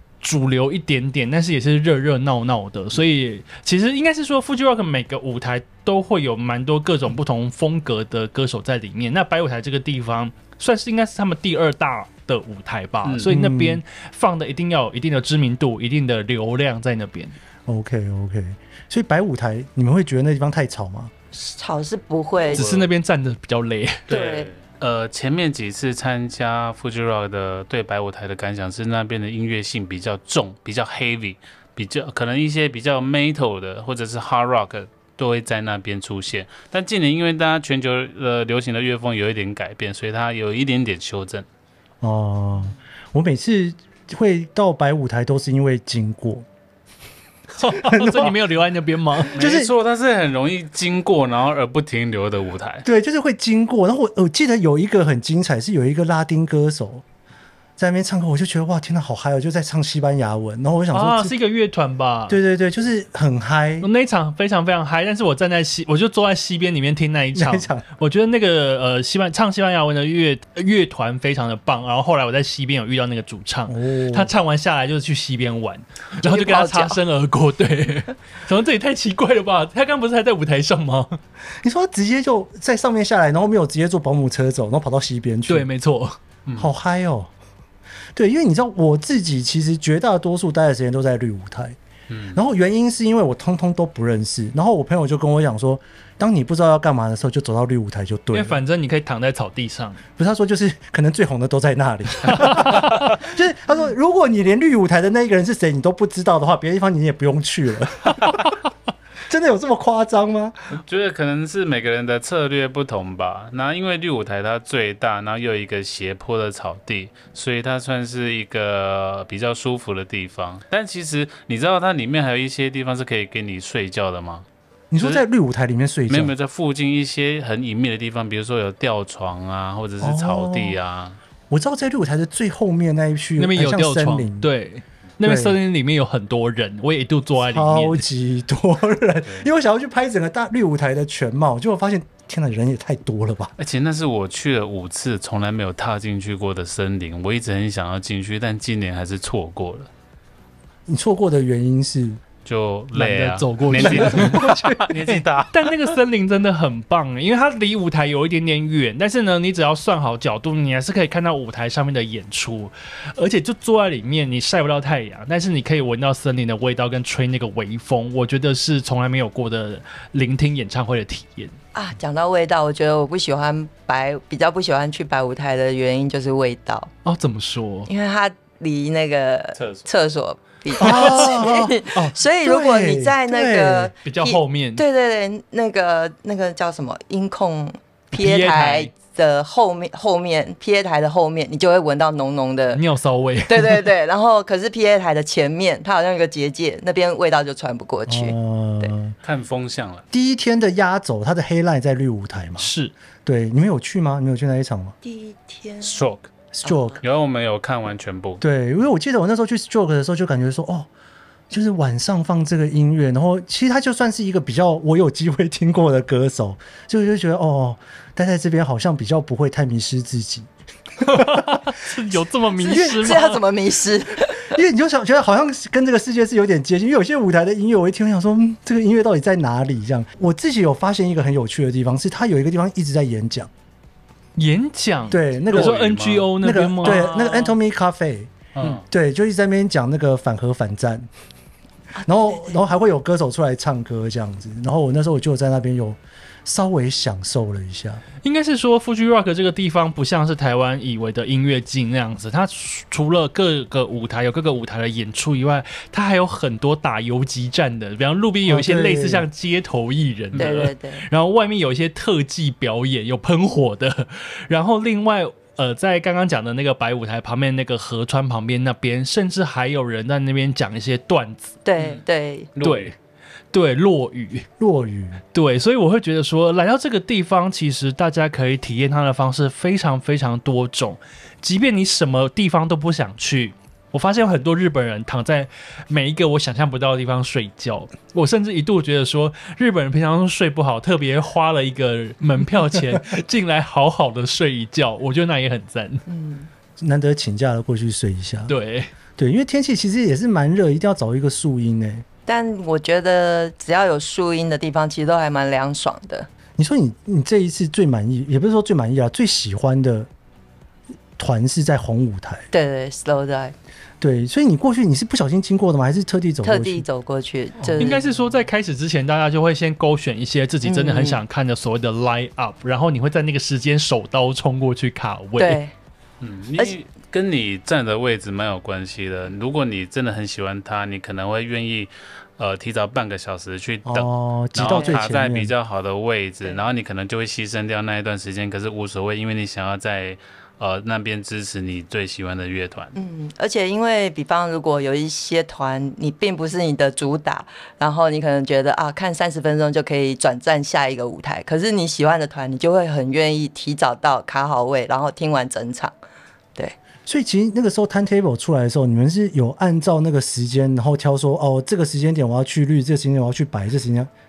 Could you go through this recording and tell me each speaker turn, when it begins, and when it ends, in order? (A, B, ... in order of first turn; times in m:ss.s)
0:00.2-0:17.3 A
0:13.0-0:13.3 B
0:13.3-0:13.8 C
0:17.7-0:21.1 C
0:21.3-0:22.6 D
0:22.5-0:22.9 B
0:22.5-0:24.0 A
0:24.1-0:41.4 B
0:24.1-0:24.5 D
0:42.0-0:46.4 C
0:47.5-0:49.4 A
0:47.6-0:48.3 C
0:49.3-0:52.8 B
0:49.4-0:49.7 C
0:52.8-0:57.0 C
0:57.8-1:01.3 C
1:00.9-1:02.4 A
1:02.3-1:03.9 C
1:03.8-1:21.2 A
1:07.3-1:07.8 C
1:13.7-1:14.3 C
1:16.2-1:17.0 D
1:21.6-1:25.7 C
1:25.5-1:26.2 A
1:26.6-1:27.3 C
1:28.1-1:31.8 C
1:32.1-1:32.4 B
1:32.3-1:38.6 C
1:38.3-1:40.0 A
1:40.2-1:48.4 C
1:49.3-1:50.6 C
1:50.8-2:04.4 B
2:04.9-2:06.3 C
2:05.0-2:05.2 B
2:06.1-2:11.2 B
2:10.0-2:10.8 C
2:11.5-2:14.5 C
2:13.4-2:18.0 A
2:15.2-2:15.6 C
2:17.4-2:23.5 C
2:23.6-2:29.9 B
2:30.9-2:32.2 C
2:32.4-2:35.7 B
2:32.9-2:34.5 A
2:33.7-2:34.9 C
2:35.0-2:51.6 A
2:51.7-2:56.9 D
2:57.0-2:57.9 A
2:57.9-3:12.8 D
2:59.6-2:59.9 B
3:00.8-3:03.9 C
3:00.8-3:01.2 A
3:04.0-3:04.8 A
3:08.1-3:08.9 A
3:12.7-3:13.9 A
3:13.5-3:18.9 D
3:18.1-3:19.1 C
3:19.2-3:20.0 B
3:20.1-3:22.7 C
3:22.6-3:22.9 A
3:23.2-3:25.0 C
3:25.0-3:25.9 D
3:25.8-3:26.3 B
3:26.5-3:27.0 C
3:26.6-3:26.9 D
3:27.0-3:28.4 B
3:28.4-3:30.9 C
3:31.5-3:40.5 C
3:41.0-3:41.6 C
3:41.0-3:43.4 A
3:42.6-3:44.5 D
3:42.7-3:43.1 C
3:44.4-3:53.5 C
3:54.4-3:57.6 A
3:55.1-3:55.8 C
3:55.4-3:56.3 B
3:56.4-3:58.3 C
3:58.5-3:58.8 B
3:58.8-4:01.1 C
4:02.0-4:02.5 D
4:02.0-4:08.0 C
4:08.2-4:31.6 A
4:18.5-4:19.3 C
4:20.4-4:21.0 D
4:31.6-4:32.5 D
4:32.6-4:32.9 B
4:32.6-4:32.9 A
4:33.5-4:34.5 A
4:34.6-4:35.2 C
4:35.3-4:56.0 A
4:56.1-4:56.5 D
4:56.8-4:58.5 C
4:58.5-4:58.9 A
4:59.2-5:02.0 C
5:02.2-5:06.3 D
5:06.6-5:10.1 C
5:11.2-5:12.5 C
5:12.5-5:13.5 D
5:14.0-5:16.8 C
5:16.4-5:18.0 D
5:17.6-5:17.9 C
5:17.8-5:25.6 A
5:20.6-5:21.2 D
5:25.4-5:25.7 D
5:26.2-5:42.9 B
5:33.8-5:35.5 C
5:34.7-5:35.0 D
5:42.9-5:55.9 D
5:57.0-6:04.1 C